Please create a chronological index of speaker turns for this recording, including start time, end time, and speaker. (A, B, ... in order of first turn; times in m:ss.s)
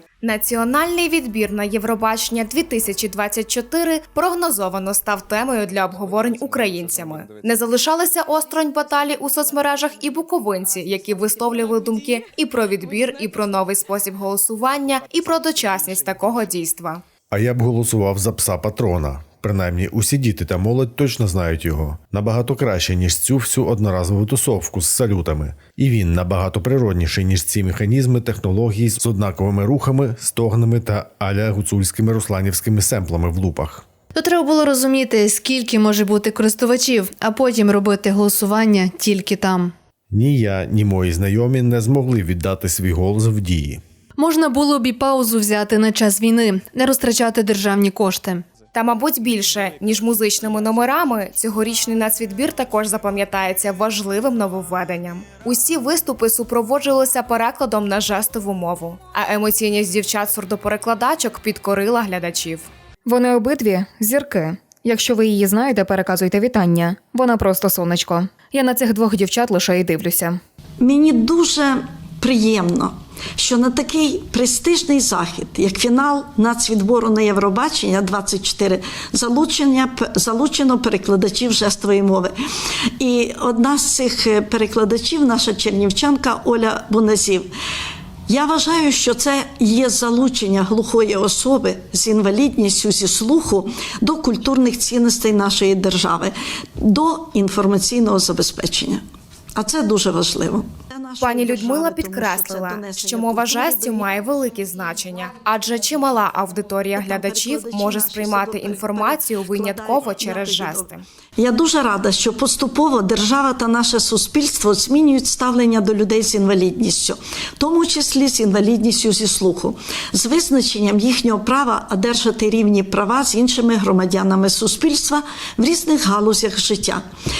0:00.2-0:17.0 A
0:17.3-0:33.8 B
0:34.2-0:39.7 C
0:40.1-0:43.8 B
0:44.2-0:48.5 C
0:48.7-1:02.7 A
1:03.1-1:10.4 D
1:10.8-1:22.4 E
1:23.0-1:27.5 E
1:28.3-1:39.0 E
1:39.6-1:44.1 E
1:41.2-1:51.0 A
1:46.9-2:07.0 E